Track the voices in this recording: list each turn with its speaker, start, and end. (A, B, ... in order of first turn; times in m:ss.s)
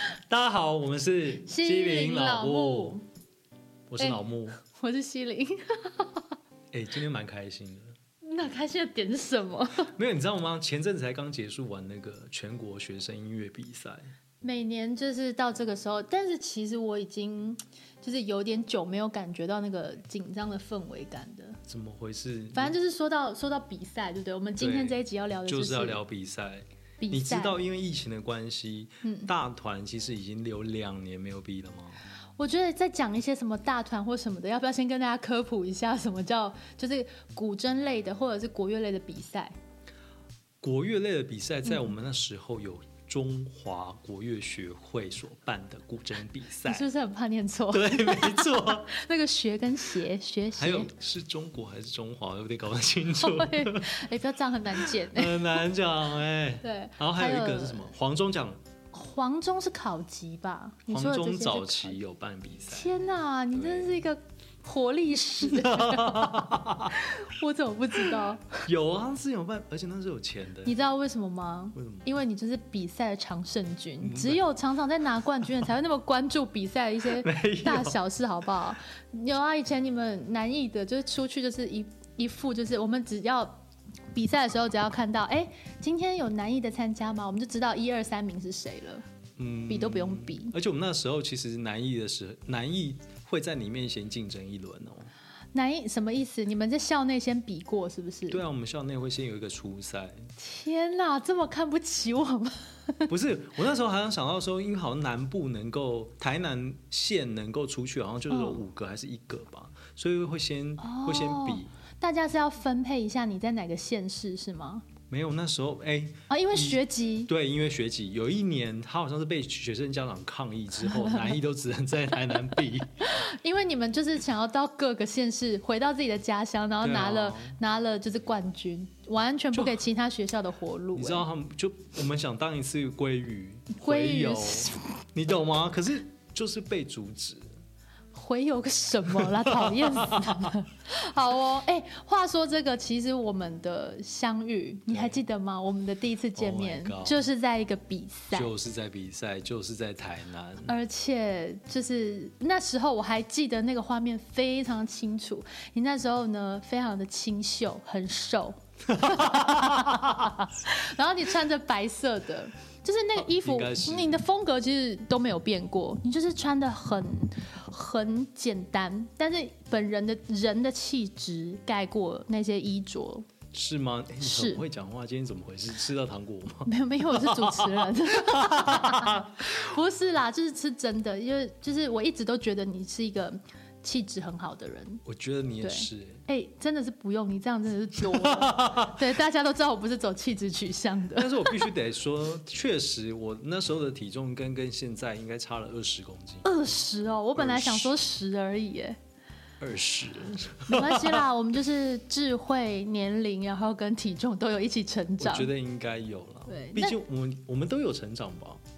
0:00.3-0:03.0 A
0:01.4-0:03.0 B
0:03.9-0:04.6 A
0:04.0-0:06.3 B
0:06.7-0:07.9 A
0:08.2-0:09.9 B
0:09.9-0:14.1 A
0:14.4-0:21.6 B
0:21.7-0:22.8 A
0:22.5-0:26.0 B
0:24.6-0:32.0 A
0:27.0-0:27.6 B
0:29.0-0:29.3 B
0:32.4-0:39.5 B
0:40.6-0:46.8 A
0:46.6-0:50.9 B
0:47.7-0:48.9 A
0:50.6-0:54.1 A
0:53.2-0:55.6 B
0:54.7-0:58.6 A
0:56.6-0:57.9 B
0:58.9-1:02.0 B
1:00.9-1:02.9 A
1:02.7-1:08.7 B
1:03.5-1:04.0 A
1:05.4-1:07.1 A
1:08.7-1:10.8 A
1:10.6-1:23.6 B
1:11.8-1:12.1 A
1:14.0-1:14.4 A
1:17.1-1:18.0 A
1:24.1-1:29.0 B
1:29.4-1:35.1 A
1:29.7-1:30.6 B
1:35.5-1:38.4 B
1:38.3-1:40.3 A
1:40.4-1:43.1 B
1:43.1-1:51.7 A
1:48.3-1:48.6 B
1:50.8-1:54.9 B
1:55.1-2:03.1 A
1:56.3-1:57.3 B
2:00.8-2:01.4 B
2:03.0-2:11.3 B
2:06.8-2:07.6 A
2:09.5-2:09.8 A
2:11.0-2:17.5 A
2:13.7-2:15.0 B
2:18.1-2:28.5 B
2:19.1-2:20.6 A
2:24.9-2:25.2 A
2:26.4-2:27.2 A
2:28.3-2:30.7 A
2:30.7-2:53.3 B
2:38.9-2:40.4 A
2:43.2-2:44.2 A
2:53.5-2:59.7 A
2:54.2-2:54.6 B
2:56.7-3:05.0 B
3:05.0-3:06.2 A
3:05.6-3:11.7 B
3:08.0-3:09.0 A
3:11.2-3:16.5 A
3:16.4-3:19.0 B
3:17.4-3:18.0 A
3:19.6-3:21.3 A
3:20.7-3:25.5 B
3:25.2-3:28.6 A
3:26.5-3:27.0 B